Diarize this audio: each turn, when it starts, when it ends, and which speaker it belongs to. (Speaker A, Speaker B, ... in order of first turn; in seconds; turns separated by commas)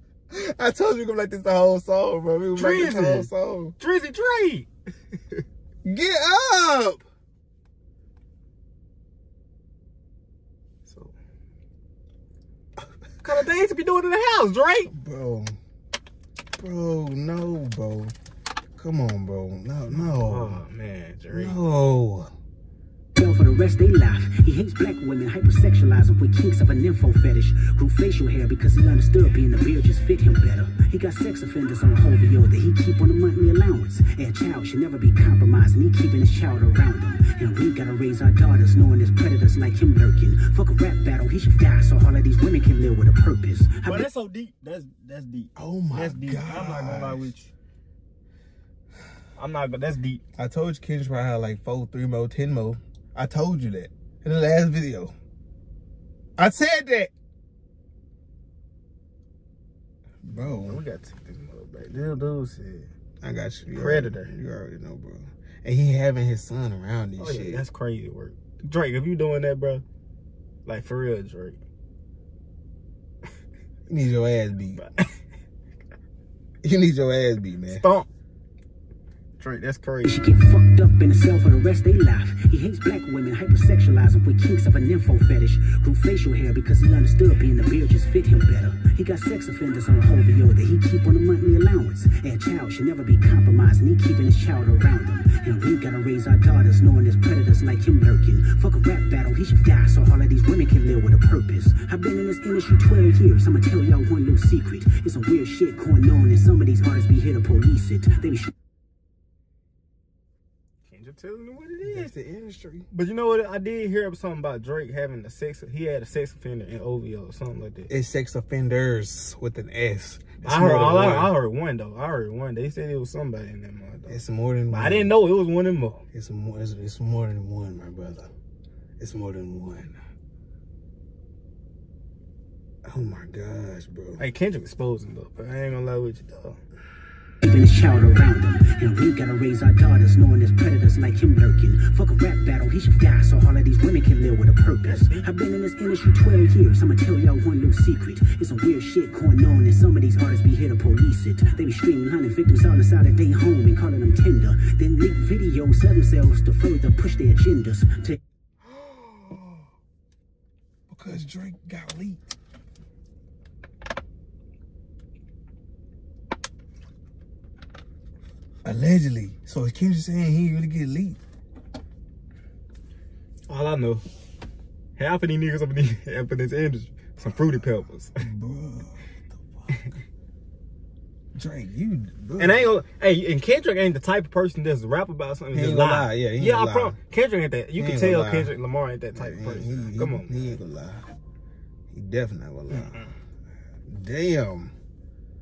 Speaker A: 0.3-3.8, Speaker B: 2.5-5.4, Speaker A: 5.8-7.0, Speaker B: 10.9-11.1, Speaker B: 13.2-14.9, Speaker A: 14.9-15.6, Speaker A: 16.6-18.1, Speaker A: 18.8-20.6, Speaker B: 19.9-21.6, Speaker A: 21.3-22.3, Speaker C: 23.1-44.1, Speaker B: 43.9-47.5, Speaker A: 45.6-47.3, Speaker B: 49.4-50.2, Speaker A: 50.4-55.1, Speaker A: 56.4-57.1, Speaker A: 60.2-60.8, Speaker B: 60.3-62.9, Speaker A: 63.2-67.7, Speaker B: 63.7-64.3, Speaker B: 67.2-69.8, Speaker B: 70.7-71.6, Speaker A: 73.9-74.8, Speaker B: 74.8-75.1, Speaker A: 76.6-77.8, Speaker B: 77.7-78.1, Speaker B: 79.4-80.2, Speaker C: 80.0-108.5, Speaker B: 110.8-112.1, Speaker A: 111.8-112.9, Speaker B: 112.9-117.9, Speaker A: 117.9-121.4, Speaker B: 120.4-124.2, Speaker A: 124.1-125.2, Speaker B: 124.7-126.0, Speaker A: 126.1-128.3, Speaker A: 129.0-129.9, Speaker A: 132.8-134.2, Speaker B: 134.2-136.6, Speaker C: 137.4-158.2, Speaker B: 144.8-145.3, Speaker A: 158.6-159.7, Speaker A: 160.9-162.2, Speaker A: 168.7-171.2, Speaker B: 173.5-174.0, Speaker B: 175.0-178.2, Speaker A: 178.2-179.9, Speaker A: 181.3-182.7, Speaker B: 182.4-190.6, Speaker A: 185.5-187.0, Speaker A: 187.8-188.5, Speaker A: 189.1-191.1, Speaker A: 191.9-193.1, Speaker B: 192.7-193.1, Speaker A: 193.9-194.7